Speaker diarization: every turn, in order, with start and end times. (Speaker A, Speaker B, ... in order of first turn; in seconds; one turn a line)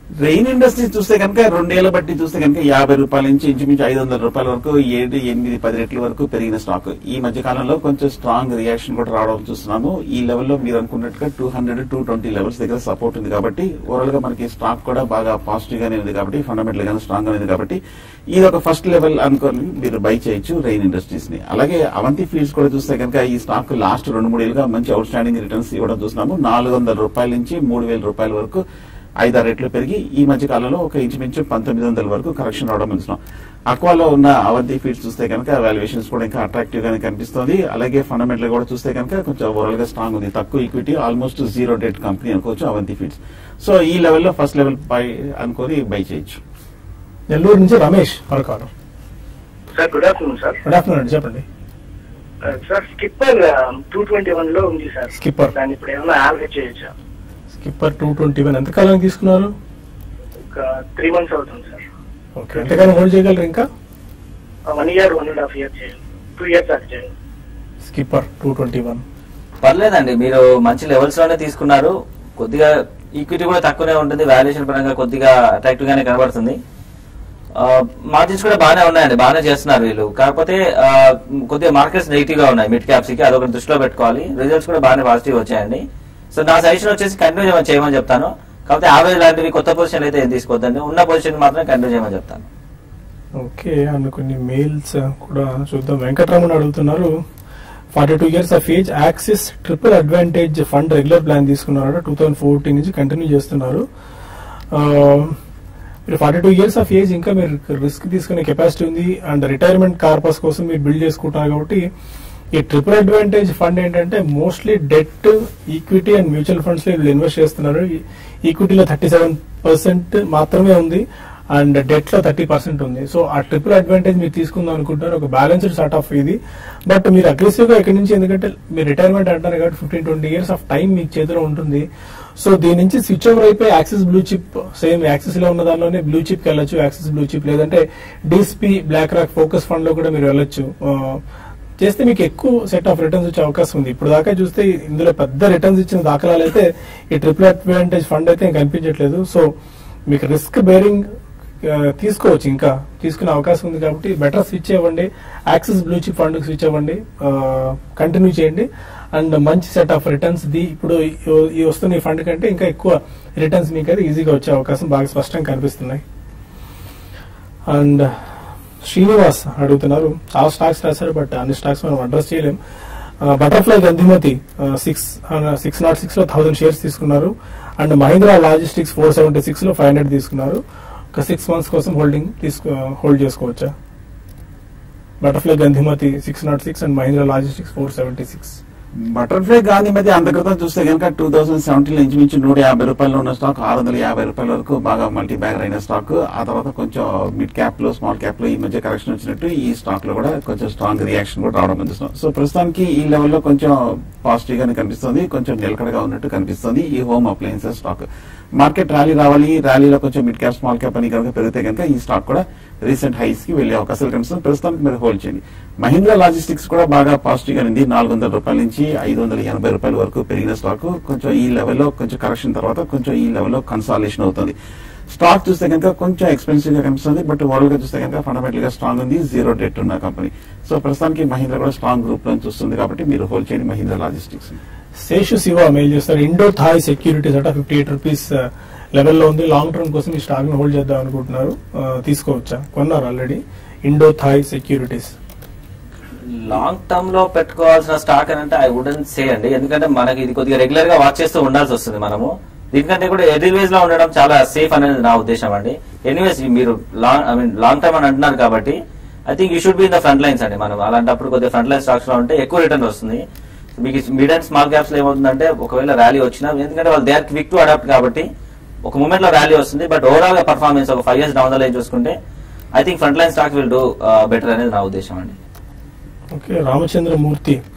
Speaker A: 0.2-17.8
Speaker A: 18.3-28.6
Speaker A: 29.2-46.4
Speaker B: 47.3-48.7
Speaker C: 49.7-50.6
Speaker B: 50.6-51.4
Speaker C: 52.4-56.9
Speaker B: 55.1-55.5
Speaker B: 57.5-59.5
Speaker C: 60.5-61.9
Speaker B: 62.4-63.7
Speaker C: 64.7-67.1
Speaker B: 67.8-69.0
Speaker D: 69.6-76.6
Speaker D: 77.5-92.4
Speaker B: 93.4-97.1
Speaker B: 97.9-103.8
Speaker B: 104.7-105.4
Speaker B: 106.1-111.8
Speaker B: 112.5-131.9
Speaker B: 132.4-141.2
Speaker B: 141.8-149.4
Speaker B: 150.1-151.1
Speaker B: 151.6-166.0
Speaker B: 167.7-168.1
Speaker B: 168.8-172.6
Speaker B: 173.2-180.6
Speaker B: 181.1-183.7
Speaker B: 185.2-188.6
Speaker A: 189.1-224.6
Speaker A: 225.1-234.6
Speaker B: 235.0-238.3
Speaker B: 238.9-245.1
Speaker D: 246.3-263.2
Speaker D: 263.8-268.2
Speaker D: 268.9-272.1
Speaker D: 272.8-275.4
Speaker B: 276.3-277.6